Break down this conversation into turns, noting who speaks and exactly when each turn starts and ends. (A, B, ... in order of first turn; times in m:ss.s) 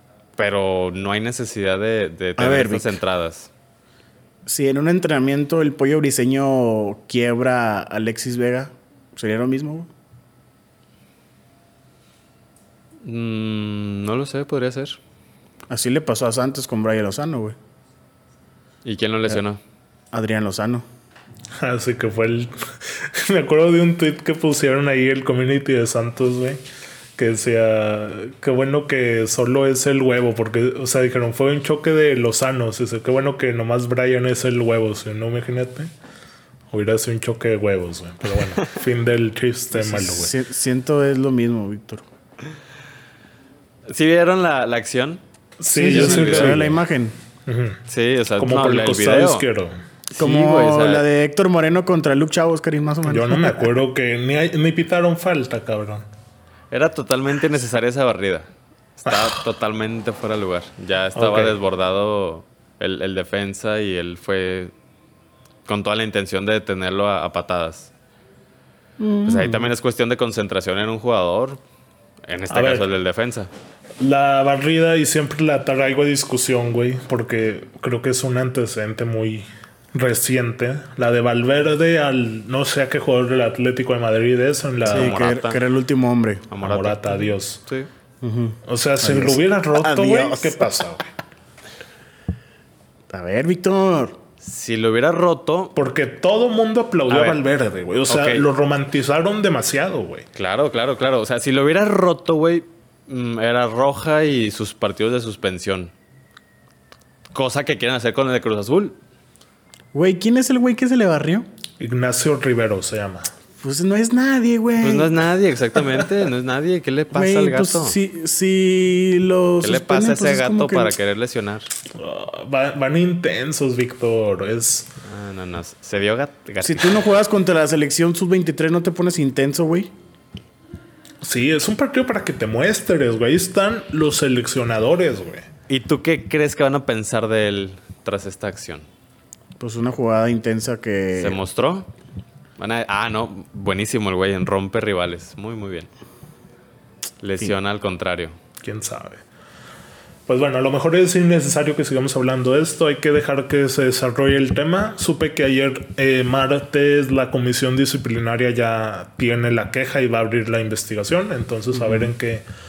0:00.4-0:03.5 A
0:02.4-0:02.9 B
0:04.4-0:09.9 B
0:13.0-0:15.0 A
0:15.7-0:17.6 B
0:18.8-0:19.6 A
0:20.1-0:20.8 B
0:21.6-0:26.6 C
0:27.2-0:35.9 C
0:36.7-0:40.3 C
0:39.7-0:42.0 B
0:43.9-0:45.2 A
0:45.6-0:46.8 C
0:45.7-0:47.1 B
0:45.8-0:46.6 A
0:47.5-0:47.8 C
0:47.9-0:49.4 A
0:48.4-0:49.7 C
0:50.1-0:51.0 A
0:50.2-0:53.7 B
0:53.0-0:56.0 C
0:56.7-1:04.7 A
0:59.1-0:59.4 C
1:01.1-1:01.6 C
1:05.6-1:07.9 A
1:09.0-1:09.7 B
1:09.2-1:11.6 A
1:12.3-1:13.5 A
1:12.5-1:12.9 C
1:14.0-1:25.2 C
1:24.9-1:25.6 A
1:24.9-1:26.5 B
1:26.5-1:27.9 A
1:26.6-1:27.6 C
1:28.2-1:30.7 B
1:28.6-1:31.1 C
1:33.1-1:34.2 B
1:34.4-1:35.7 A
1:35.7-1:40.2 C
1:37.1-1:37.4 A
1:38.1-1:38.5 A
1:40.4-1:45.9 A
1:47.3-1:49.0 A
1:49.9-1:51.5 B
1:51.8-1:53.3 C
1:53.6-1:55.2 B
1:54.8-1:58.0 A
1:57.1-2:01.0 B
1:59.6-2:01.7 A
2:01.9-2:04.9 C
2:05.0-2:07.1 A
2:06.6-2:09.9 B
2:11.2-2:15.5 C
2:15.7-2:18.8 A
2:19.6-2:21.4 B
2:21.2-2:21.9 A
2:22.6-2:25.9 A
2:27.2-2:28.4 A
2:28.6-2:29.2 C
2:30.3-2:42.4 C
2:41.7-2:42.1 B